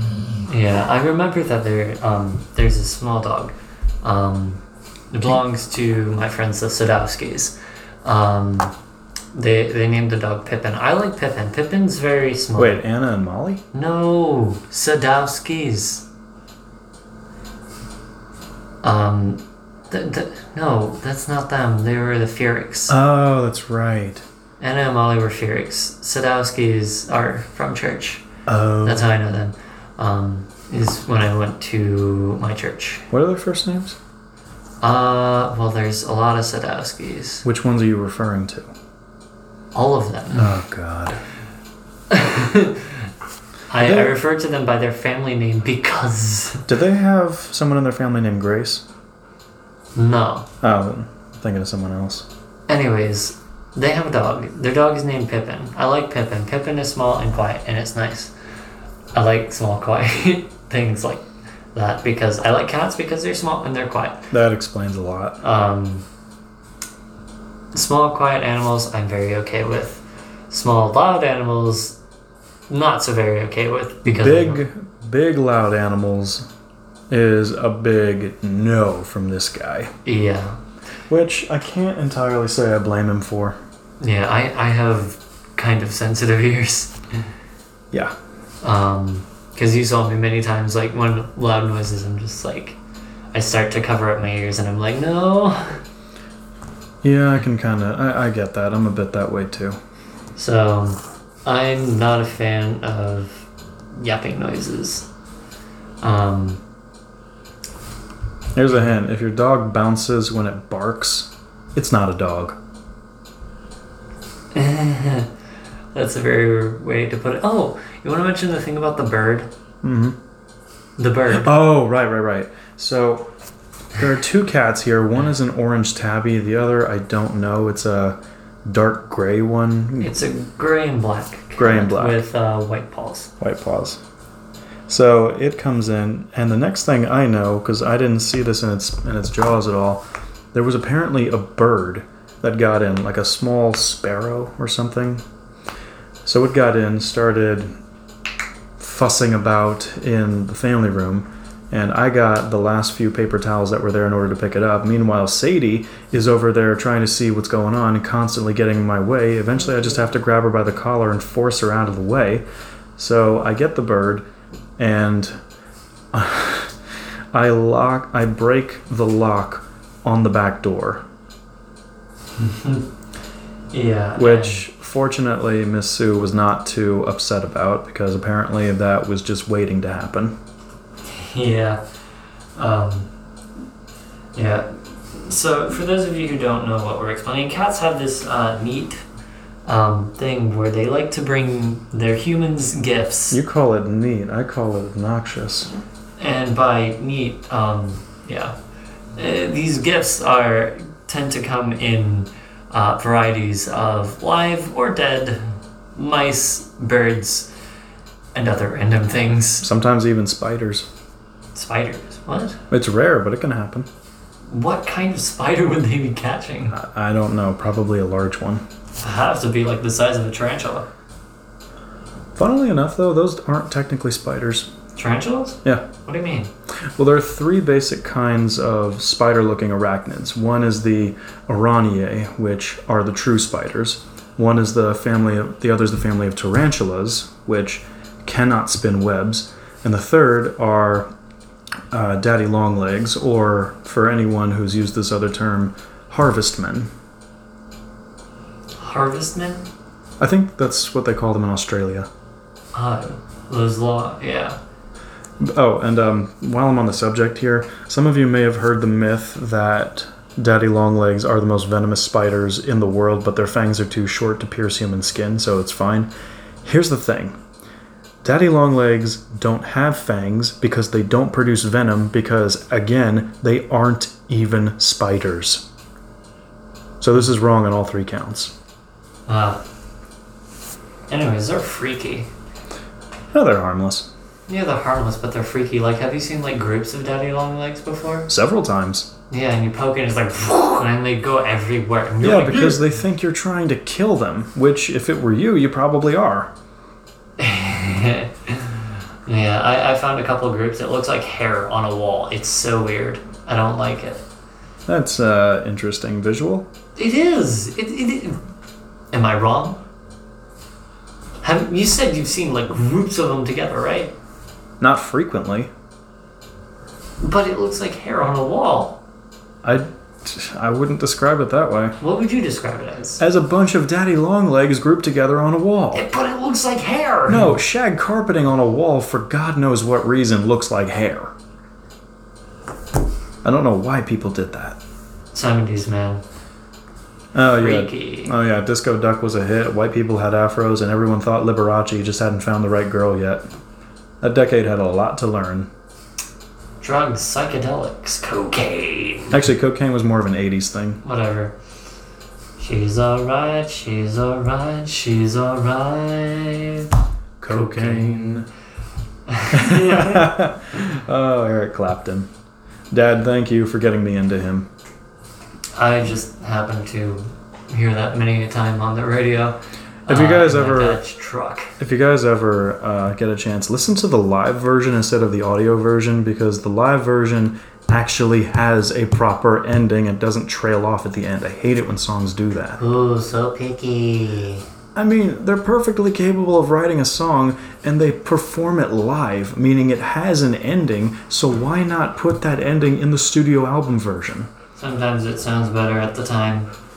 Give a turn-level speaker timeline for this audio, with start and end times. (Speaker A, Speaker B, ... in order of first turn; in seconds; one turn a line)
Speaker A: 0.5-8.7
Speaker A: 9.3-12.8
Speaker B: 12.6-13.6
Speaker A: 13.7-16.1
Speaker A: 18.8-22.9
Speaker B: 22.9-24.2
Speaker A: 24.6-28.2
Speaker B: 28.5-29.1
Speaker A: 28.8-33.1
Speaker B: 33.1-34.0
Speaker A: 34.8-37.5
Speaker B: 37.5-38.7
Speaker A: 39.7-40.5
Speaker B: 40.4-41.2
Speaker A: 42.1-43.1
Speaker A: 43.7-46.6
Speaker B: 43.8-44.1
Speaker B: 46.7-48.8
Speaker A: 50.0-50.5
Speaker B: 50.6-52.3
Speaker A: 52.7-58.3
Speaker A: 59.1-64.2
Speaker B: 64.3-65.4
Speaker A: 65.4-66.1
Speaker A: 67.7-72.0
Speaker A: 72.7-74.6
Speaker B: 74.0-76.5
Speaker B: 77.1-79.9
Speaker A: 80.0-80.6
Speaker B: 81.1-83.6
Speaker A: 84.0-87.3
Speaker A: 88.6-92.8
Speaker A: 93.3-95.8
Speaker B: 97.0-99.8
Speaker A: 100.4-105.1
Speaker A: 106.0-106.6
Speaker B: 108.5-112.6
Speaker A: 114.5-115.3
Speaker A: 115.9-119.5
Speaker B: 119.8-120.2
Speaker A: 121.0-121.5
Speaker B: 121.3-123.3
Speaker B: 123.9-130.2
Speaker A: 130.0-133.3
Speaker B: 131.6-132.3
Speaker B: 133.4-134.0
Speaker B: 134.9-145.2
Speaker B: 146.2-147.7
Speaker B: 148.8-162.4
Speaker B: 163.0-164.2
Speaker B: 164.8-165.4
Speaker B: 166.1-166.7
Speaker B: 167.3-171.0
Speaker A: 172.4-172.9
Speaker A: 173.7-174.6
Speaker B: 174.2-180.4
Speaker A: 181.0-181.8
Speaker A: 182.6-183.1
Speaker A: 184.3-189.0
Speaker A: 189.7-193.4
Speaker B: 193.3-195.7
Speaker A: 196.2-198.6
Speaker A: 199.2-205.4
Speaker A: 205.9-207.5
Speaker A: 208.3-209.7
Speaker B: 209.6-210.9
Speaker A: 211.6-212.6
Speaker B: 212.7-213.9
Speaker A: 214.5-216.8
Speaker B: 216.7-218.6
Speaker A: 219.0-220.9
Speaker B: 222.4-224.7
Speaker A: 224.9-226.5
Speaker B: 227.0-241.1
Speaker B: 241.9-246.9
Speaker A: 248.8-249.7
Speaker B: 250.2-252.1
Speaker A: 252.7-254.6
Speaker B: 255.4-266.1
Speaker B: 266.6-267.4
Speaker B: 268.2-275.7
Speaker B: 277.0-278.5
Speaker A: 279.3-279.6
Speaker A: 281.1-282.3
Speaker B: 283.3-284.1
Speaker A: 284.5-288.3
Speaker B: 288.3-289.1
Speaker A: 289.3-292.9
Speaker B: 292.2-296.5
Speaker A: 297.4-304.2
Speaker B: 304.9-306.7
Speaker A: 307.0-308.4
Speaker A: 309.1-309.8
Speaker A: 311.4-314.2
Speaker B: 314.8-315.7
Speaker A: 317.2-319.0
Speaker B: 319.6-322.0
Speaker A: 322.0-323.2
Speaker B: 323.2-326.0
Speaker A: 325.9-327.6
Speaker B: 327.3-331.3
Speaker B: 333.4-334.8
Speaker A: 335.3-336.2
Speaker B: 337.3-343.4
Speaker A: 337.5-338.3
Speaker B: 344.2-345.7
Speaker A: 346.8-349.4
Speaker B: 349.3-351.0
Speaker A: 351.0-351.6
Speaker A: 352.6-356.9
Speaker B: 357.4-358.5
Speaker A: 357.5-358.5
Speaker A: 359.3-360.3
Speaker B: 359.5-362.3
Speaker B: 362.9-364.7
Speaker A: 365.8-371.7
Speaker B: 370.1-371.0
Speaker B: 371.8-382.8
Speaker A: 382.8-384.7
Speaker B: 384.9-394.5
Speaker A: 394.8-396.7